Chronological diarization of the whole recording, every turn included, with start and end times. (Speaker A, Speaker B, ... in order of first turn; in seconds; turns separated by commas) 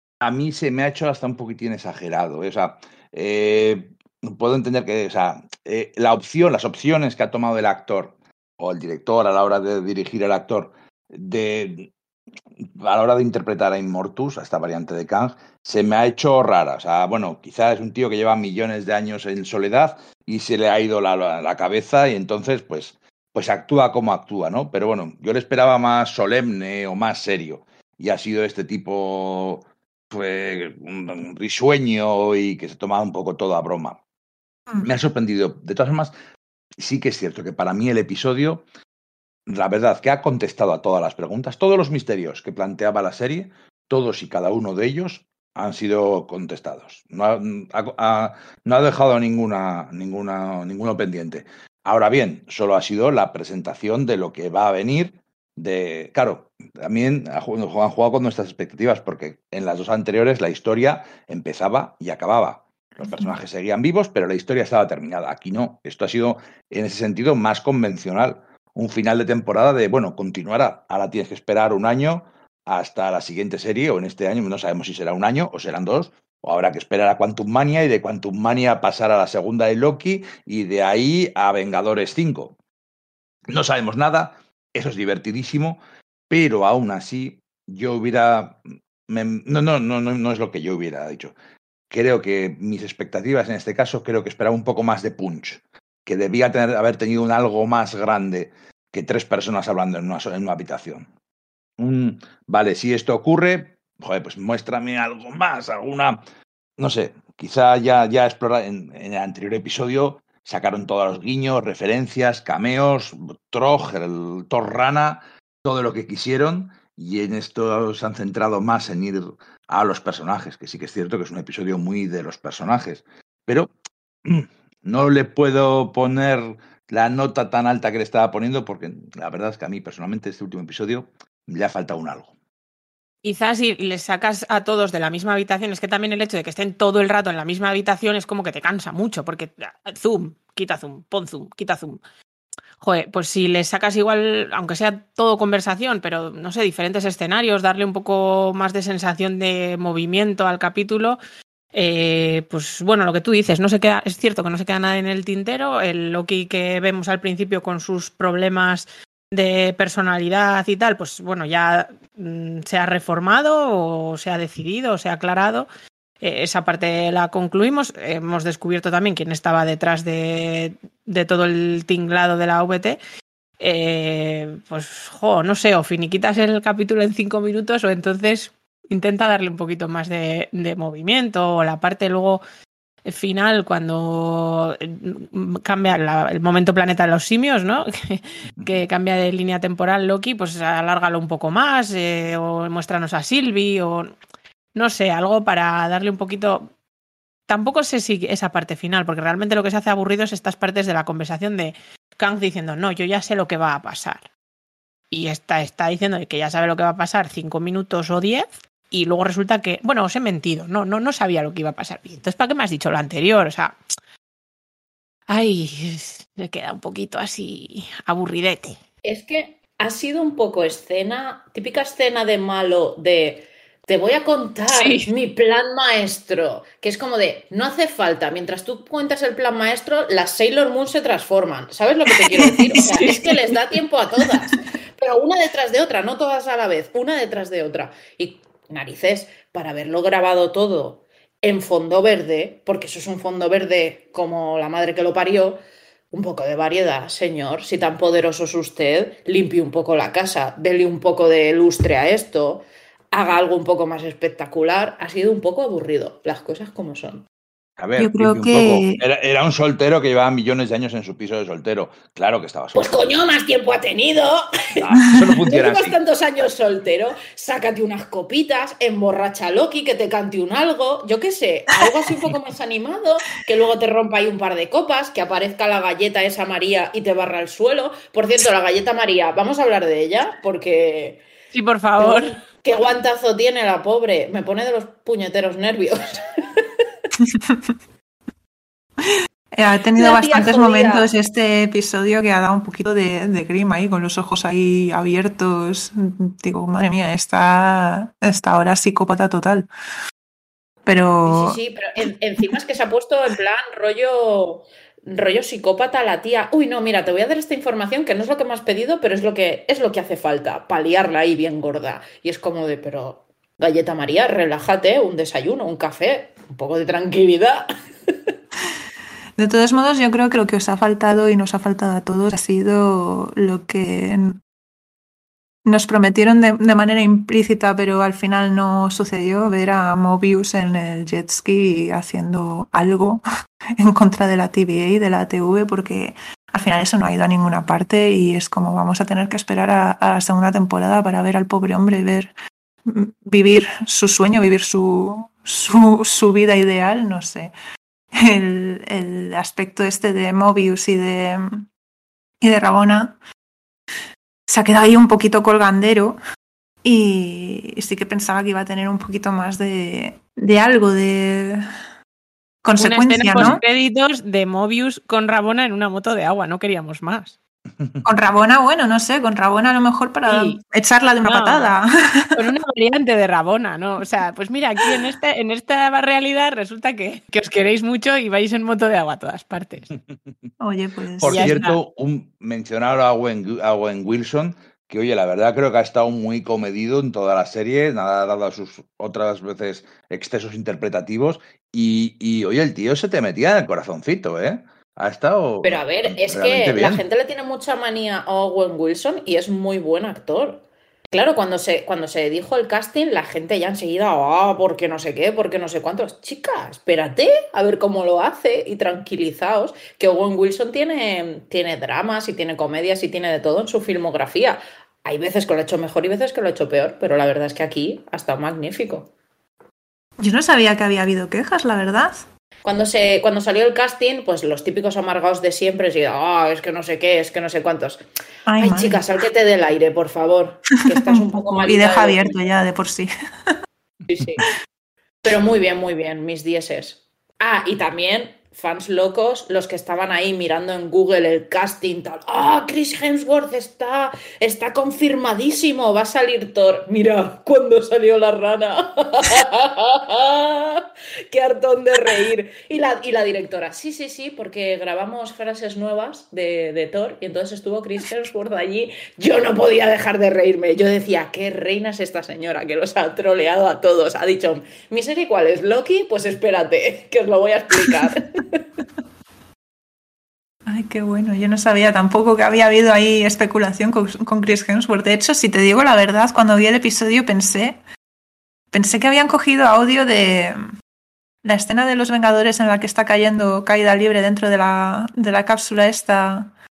Speaker A: 0.2-11.9, Speaker A: 12.8-34.0, Speaker A: 34.8-36.1, Speaker A: 36.8-38.6, Speaker A: 39.5-82.5, Speaker B: 63.0-63.3, Speaker A: 83.5-91.3, Speaker A: 91.9-101.1, Speaker A: 101.8-106.2, Speaker A: 106.8-123.7, Speaker A: 124.2-132.3, Speaker C: 133.2-142.0, Speaker C: 142.8-151.2, Speaker C: 151.7-165.7, Speaker C: 166.2-173.0, Speaker C: 173.6-182.4, Speaker C: 183.1-194.2, Speaker C: 194.7-196.7, Speaker C: 197.5-204.2, Speaker C: 205.1-213.8, Speaker C: 215.3-218.8, Speaker D: 219.0-245.6, Speaker C: 224.7-225.1, Speaker B: 232.4-232.9, Speaker C: 232.8-233.4, Speaker D: 246.1-257.2, Speaker A: 257.8-263.0, Speaker B: 258.0-259.0, Speaker D: 262.7-264.8, Speaker A: 264.8-266.0, Speaker D: 265.4-281.2, Speaker C: 281.5-282.4, Speaker D: 282.0-286.6, Speaker B: 287.2-287.6, Speaker B: 289.0-299.7, Speaker D: 289.9-291.1, Speaker B: 300.9-301.6, Speaker D: 301.2-317.7, Speaker B: 319.4-324.4, Speaker B: 325.6-333.2, Speaker B: 333.8-342.3, Speaker B: 342.8-347.5, Speaker B: 348.1-351.6, Speaker B: 352.4-353.1, Speaker B: 354.5-356.2, Speaker B: 356.8-361.6, Speaker B: 362.6-363.6, Speaker C: 362.8-367.3, Speaker B: 368.0-372.4, Speaker C: 370.3-370.6, Speaker C: 371.2-371.7, Speaker C: 372.3-379.9, Speaker B: 380.6-381.6, Speaker A: 381.2-397.0, Speaker C: 381.3-381.8, Speaker D: 395.6-419.1, Speaker B: 420.2-422.2, Speaker D: 422.6-428.0, Speaker B: 428.5-429.0, Speaker D: 428.6-432.4, Speaker B: 430.9-433.5, Speaker D: 434.1-434.5, Speaker D: 435.2-468.6, Speaker B: 470.7-477.8, Speaker B: 478.7-480.6, Speaker B: 481.4-486.5